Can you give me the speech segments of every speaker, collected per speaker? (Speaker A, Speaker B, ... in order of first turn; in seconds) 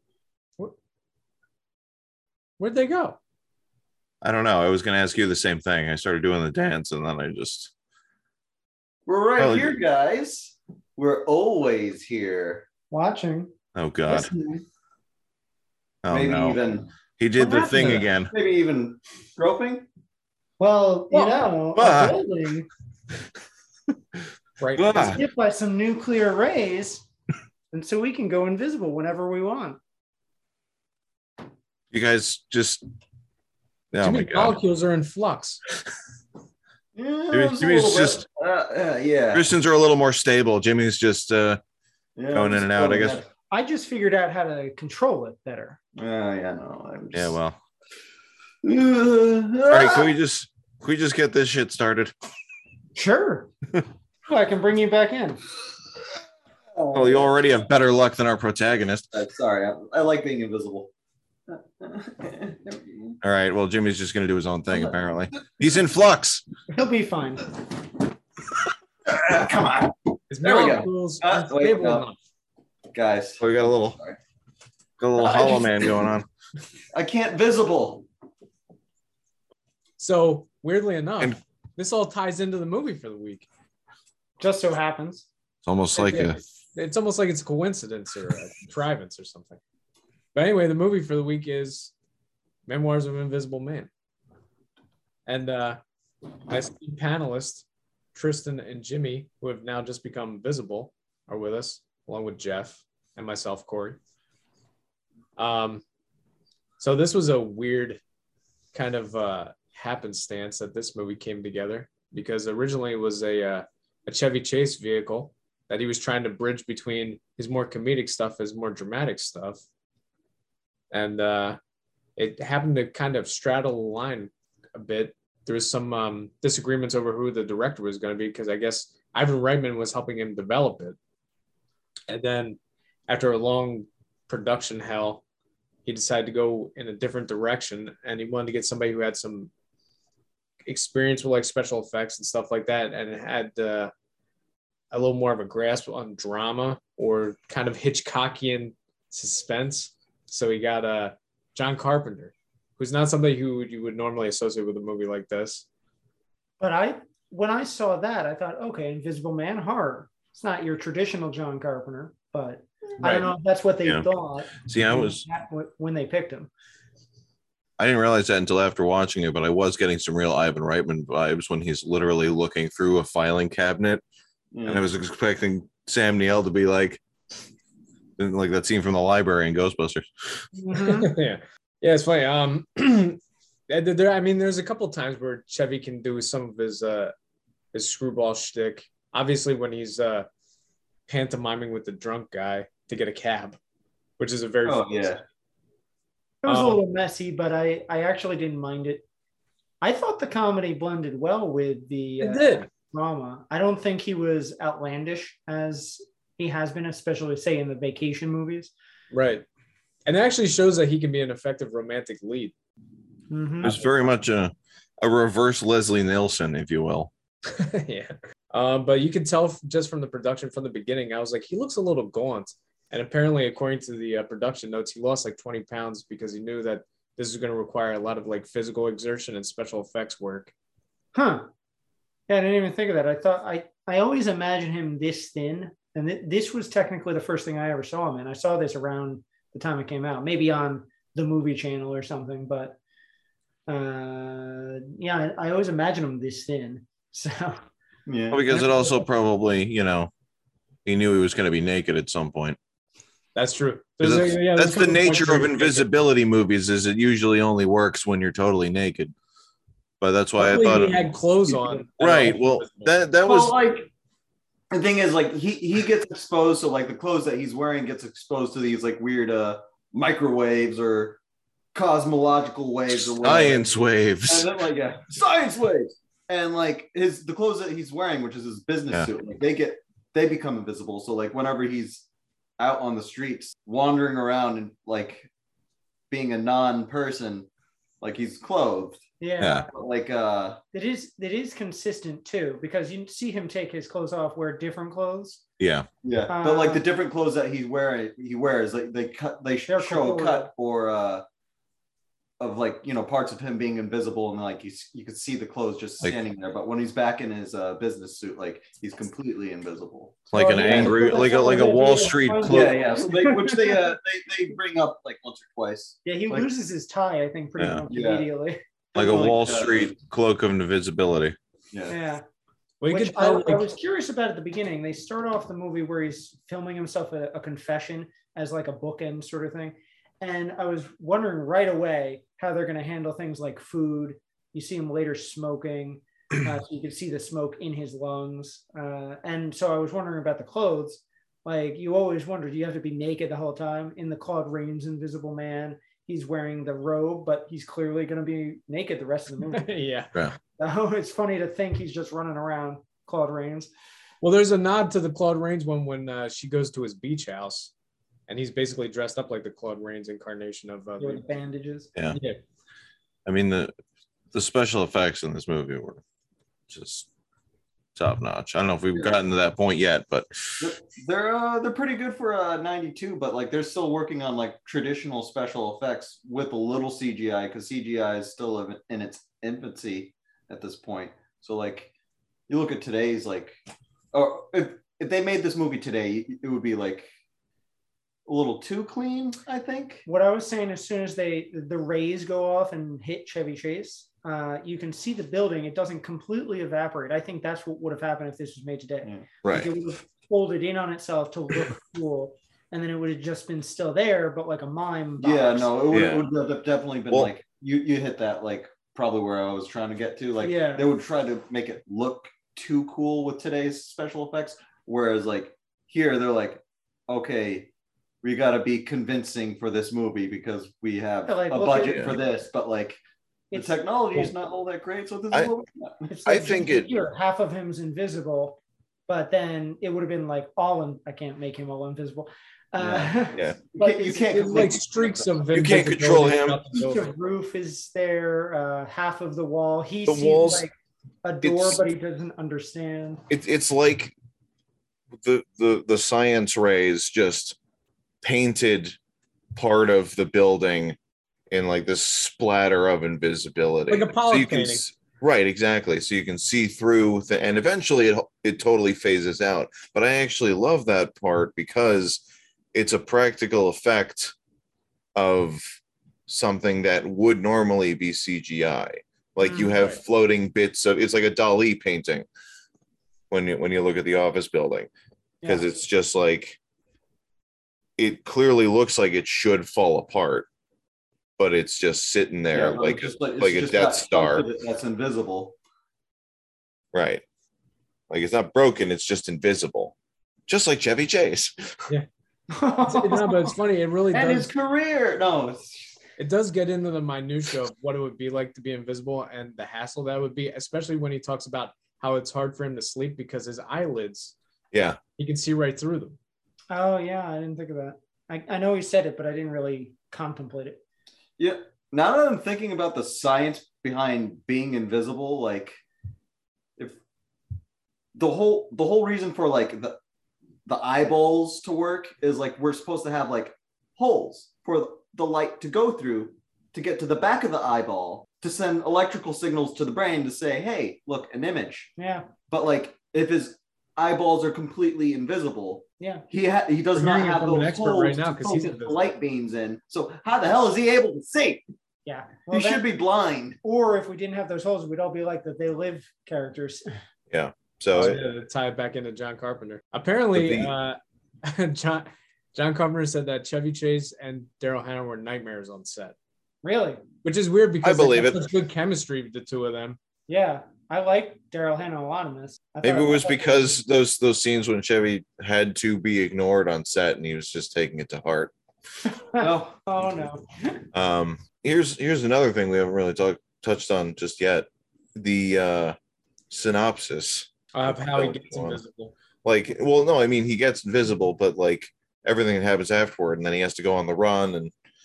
Speaker A: 2.6-3.2, 24.6-25.2, 34.0-35.6, 70.3-72.2, 80.0-83.5, 85.9-89.6, 90.3-91.9, 92.7-93.9, 95.3-95.8, 96.5-104.0, 105.4-105.8, 106.8-108.0, 108.7-119.6, 120.9-121.6, 122.2-131.0, 132.1-135.2, 135.9-139.5, 140.7-143.9, 144.9-155.7, 163.0-163.3, 180.8-187.1, 187.7-190.3, 191.1-193.6, 194.2-195.2, 196.5-196.8, 202.2-202.7, 209.1-209.4, 210.1-212.6, 217.5-230.5, 253.3-255.9, 260.4-262.9, 322.8-323.7, 349.5-350.2, 354.2-357.7, 358.3-361.3, 362.1-362.4, 434.3-437.1, 453.9-454.8, 492.9-494.5, 496.2-504.4, 505.2-506.2, 536.9-539.1, 547.9-556.1, 557.2-560.0, 577.7-579.1
Speaker B: 4.2-7.7, 9.4-9.8, 13.8-14.3, 16.0-16.6, 17.2-18.3, 21.8-22.2, 24.8-25.2, 31.9-32.8, 33.9-34.6, 37.3-38.3, 39.3-41.6, 42.3-43.2, 47.1-47.6, 49.7-52.1, 56.9-59.1, 63.2-66.4, 73.4-74.0, 75.0-76.3, 85.7-86.4, 164.6-165.2, 167.8-174.0, 174.7-177.0, 178.2-180.4, 213.6-217.1, 248.3-250.1, 250.8-252.6, 254.0-259.1, 260.0-261.1, 262.0-263.6, 272.9-274.5, 289.4-289.7, 295.6-295.9, 310.3-312.9, 317.6-317.8, 318.9-321.4, 363.3-363.7, 364.3-366.0, 366.7-367.1, 368.0-370.7, 399.4-399.7, 405.9-406.3, 421.9-422.2, 426.3-426.9, 432.8-433.6, 435.5-436.6, 440.1-440.6, 441.4-441.8, 443.3-444.1, 445.2-447.6, 448.2-449.0, 449.6-451.0, 451.5-464.3, 465.1-465.6, 466.3-472.3, 473.3-474.9, 475.4-476.6, 478.0-480.5, 481.4-484.4, 486.9-487.2, 488.1-489.9, 490.5-491.8, 504.7-505.0, 547.3-548.2, 550.3-550.7, 557.8-558.5, 562.8-568.5, 570.9-576.0, 576.5-578.8, 579.4-584.7
Speaker C: 9.1-12.7, 16.1-16.9, 18.3-19.9, 37.0-39.5, 42.2-43.3, 46.0-47.4, 48.6-50.1, 56.8-57.3, 59.1-60.9, 61.5-63.2, 69.1-72.1, 72.9-74.2, 75.3-75.7, 76.9-78.1, 174.5-174.8, 194.7-195.2, 248.1-248.4, 263.2-263.9, 264.7-271.2, 271.8-273.7, 274.3-282.1, 282.6-285.3, 286.1-287.5, 288.0-289.0, 289.7-290.6, 296.0-301.2, 302.4-311.4, 312.4-316.5, 317.9-318.2, 319.0-319.9, 370.6-381.9, 382.5-383.6, 384.1-387.1, 388.3-390.1, 405.2-417.7, 418.2-423.0, 423.5-426.1, 433.7-435.3, 482.5-485.6, 494.1-496.0, 511.4-515.8, 518.1-520.0, 520.7-531.9, 532.5-541.6, 542.5-543.6, 569.4-569.9
Speaker D: 12.9-13.5, 14.1-14.6, 17.4-18.1, 20.6-22.7, 25.0-27.1, 27.7-29.8, 43.5-45.8, 53.0-53.5, 54.3-55.4, 66.7-67.5, 84.4-85.3, 156.6-166.5, 180.6-181.1, 196.4-199.0, 199.8-208.7, 213.3-213.8, 231.2-231.5, 232.3-242.8, 243.7-247.6, 248.5-249.1, 289.2-289.7, 290.7-295.4, 296.3-296.8, 299.7-300.5, 310.3-313.7, 316.1-319.4, 321.9-322.2, 322.9-349.7, 350.6-353.7, 361.0-361.9, 390.1-405.9, 410.4-410.9, 421.3-422.2, 423.5-423.8, 426.1-434.7, 436.7-440.7, 441.2-443.2, 469.4-469.8, 492.5-493.5, 506.7-510.8, 532.0-532.3, 536.0-536.2, 542.1-542.9, 543.6-546.9, 556.6-557.0, 560.3-563.6, 569.3-570.8